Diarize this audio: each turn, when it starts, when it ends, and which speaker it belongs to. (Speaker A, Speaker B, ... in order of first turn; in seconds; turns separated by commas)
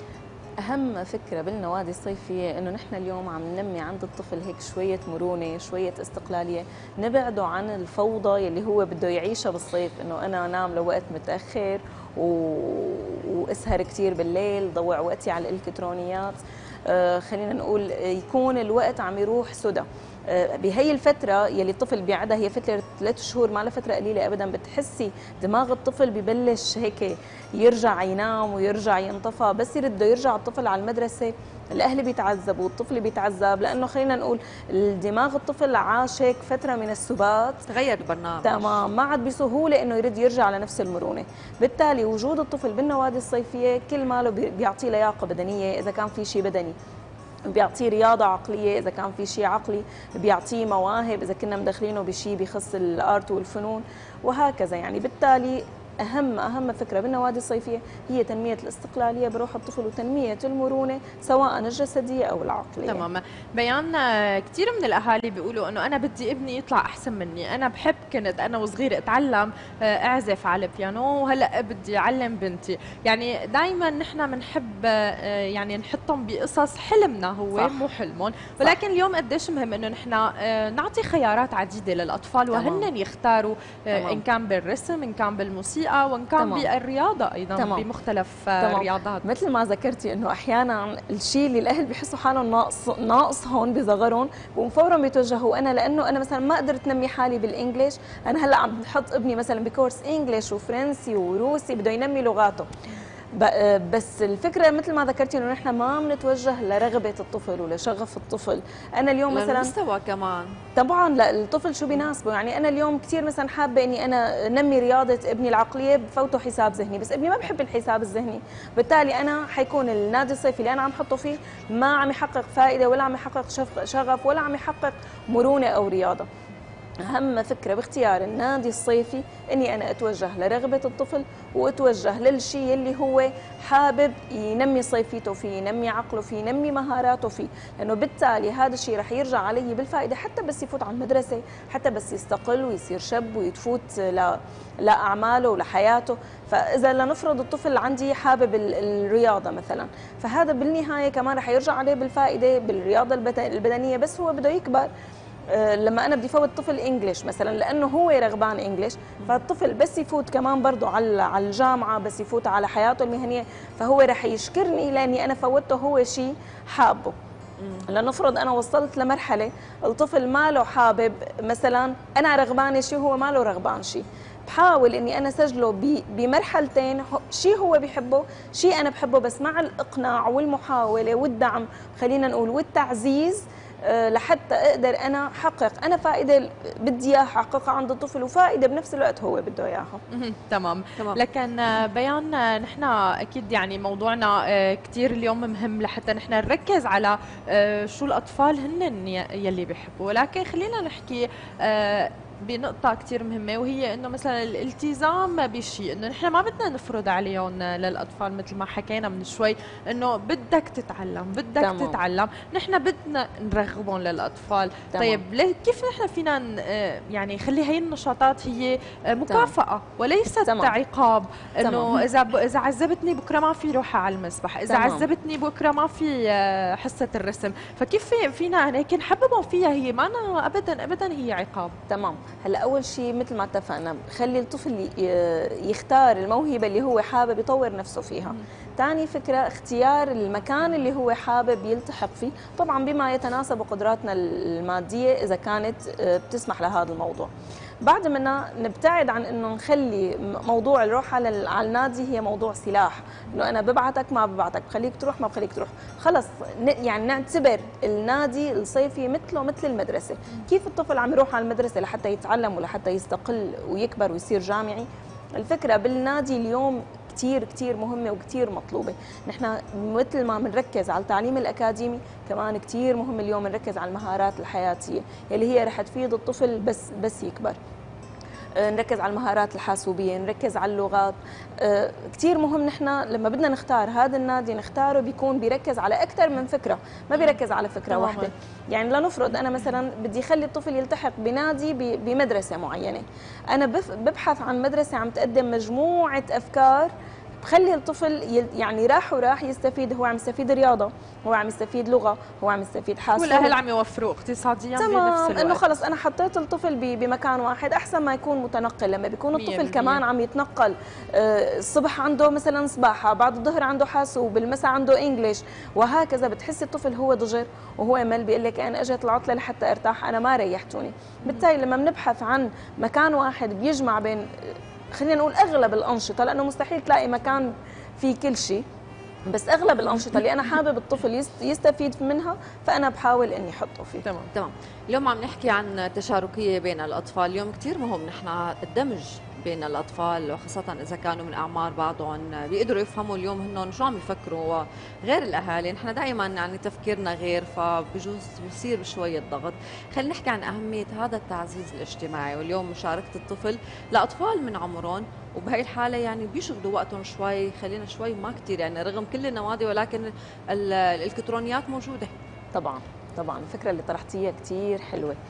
Speaker A: 0.6-37.7, Speaker B: 37.7-38.8, Speaker A: 38.4-46.7, Speaker A: 47.5-63.0, Speaker C: 62.9-89.2, Speaker A: 77.5-77.8, Speaker A: 82.5-82.9, Speaker A: 83.9-84.2, Speaker A: 86.4-86.7, Speaker A: 87.6-87.9, Speaker A: 88.6-102.7, Speaker A: 103.4-109.7, Speaker B: 109.3-110.6, Speaker A: 110.8-126.3, Speaker A: 127.0-154.9, Speaker A: 155.5-167.1, Speaker B: 167.6-167.9, Speaker A: 167.9-190.0, Speaker C: 190.1-231.8, Speaker A: 211.6-212.0, Speaker A: 214.9-215.2, Speaker A: 219.3-219.5, Speaker A: 220.4-220.8, Speaker A: 221.6-222.1, Speaker A: 224.7-225.1, Speaker A: 231.9-247.3, Speaker A: 247.8-277.6, Speaker A: 278.6-296.9, Speaker C: 287.9-288.3, Speaker A: 297.4-303.6, Speaker C: 303.1-305.8, Speaker A: 304.8-328.6, Speaker C: 309.3-310.0, Speaker A: 329.3-334.1, Speaker C: 334.0-334.3, Speaker B: 334.3-362.1, Speaker A: 362.5-365.2